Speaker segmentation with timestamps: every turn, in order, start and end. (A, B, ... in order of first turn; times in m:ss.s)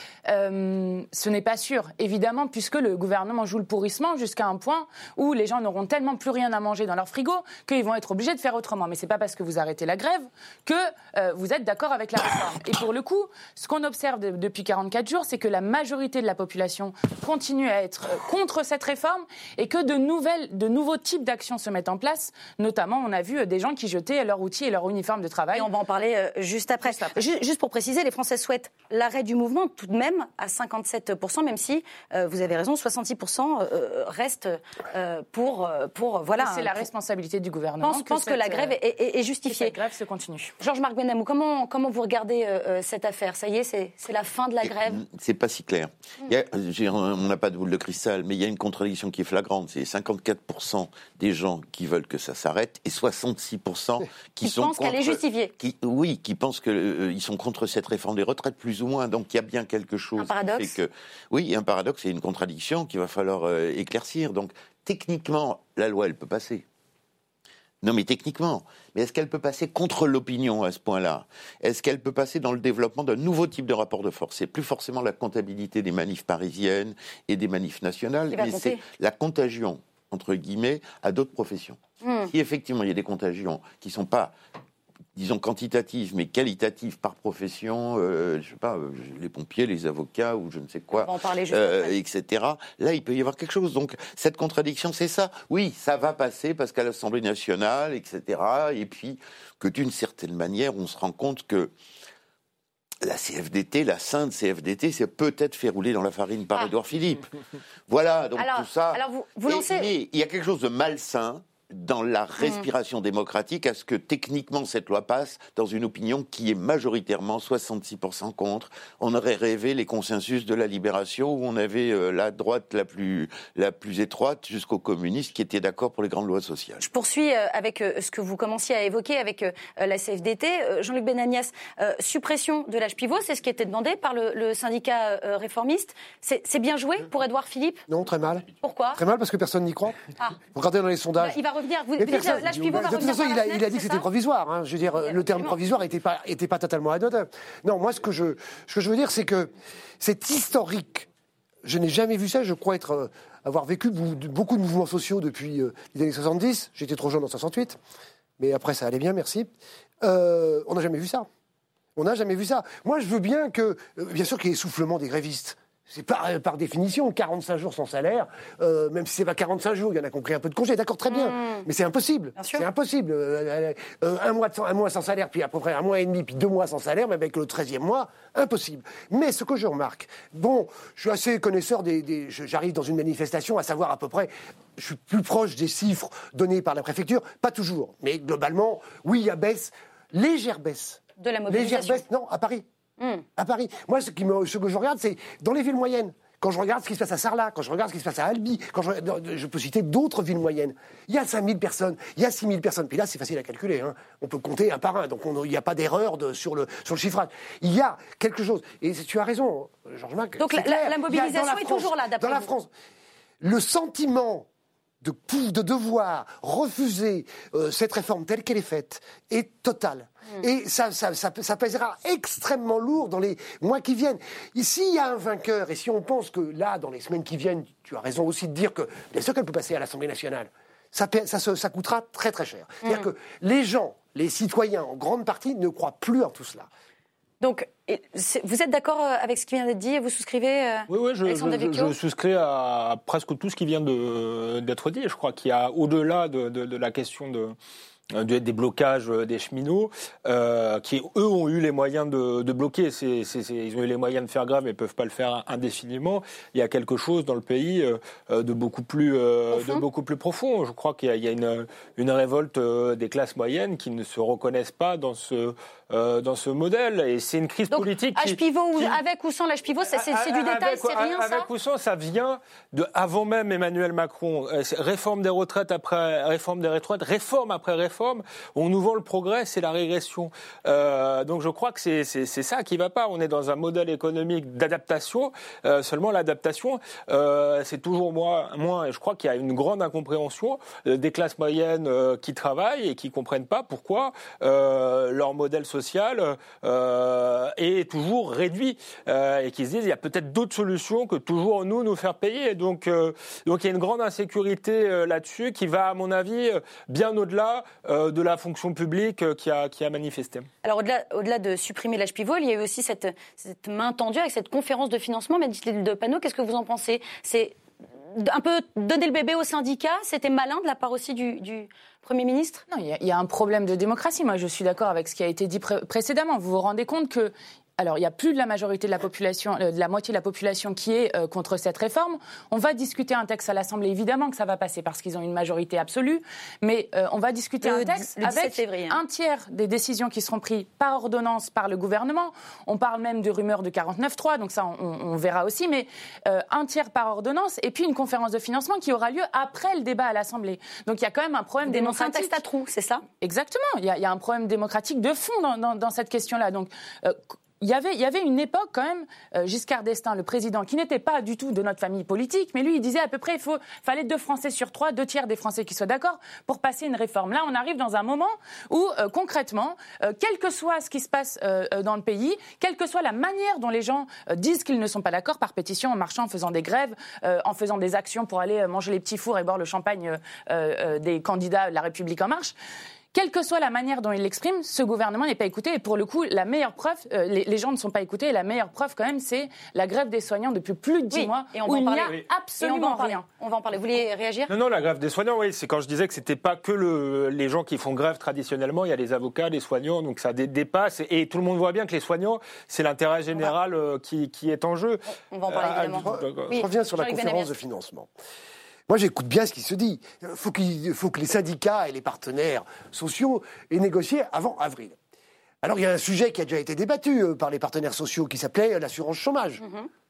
0:00.2-0:25.7 A
0:25.5-0:36.8 B
0:26.8-0:27.2 A
0:36.4-0:38.7 A
0:37.8-0:39.7 B
0:39.5-0:40.5 A
0:40.6-0:45.0 B
0:44.6-1:06.6 C
0:54.4-0:55.5 B
1:00.2-1:00.8 B
1:07.8-1:21.8 C
1:18.3-1:18.8 B
1:22.0-1:22.3 B
1:22.3-1:24.3 C
1:25.1-1:41.7 C
1:30.9-1:32.0 B
1:43.0-1:47.3 C
1:47.9-2:06.8 C
1:48.4-1:49.9 B
2:06.8-2:17.8 B
2:17.9-2:21.4 D
2:18.6-2:19.0 B
2:21.2-2:24.0 B
2:22.0-2:31.1 D
2:25.0-2:25.5 B
2:31.6-2:37.8 D
2:38.4-2:39.5 D
2:40.0-2:41.3 D
2:42.0-3:12.6 D
2:51.1-2:51.6 B
2:52.4-2:52.6 B
3:11.2-3:12.0 B
3:13.0-3:13.2 B
3:13.4-3:32.7 D
3:30.4-3:32.5 B
3:33.4-3:34.5 D
3:35.0-3:56.7 D
3:57.4-4:01.9 B
4:00.9-4:07.5 E
4:08.1-4:29.0 E
4:19.5-4:19.8 B
4:27.7-4:31.5 B
4:29.9-5:10.5 E
5:10.6-5:17.6 B
5:18.1-5:22.6 B
5:22.7-5:52.4 A
5:37.6-5:39.0 B
5:51.6-5:53.0 B
5:53.2-6:22.5 A
6:23.1-6:33.2 A
6:31.1-6:34.5 B
6:34.5-6:46.6 E
6:45.3-6:47.5 B
6:46.0-6:48.1 D
6:48.9-6:55.0 D
6:55.6-6:59.6 D
6:59.6-6:59.9 B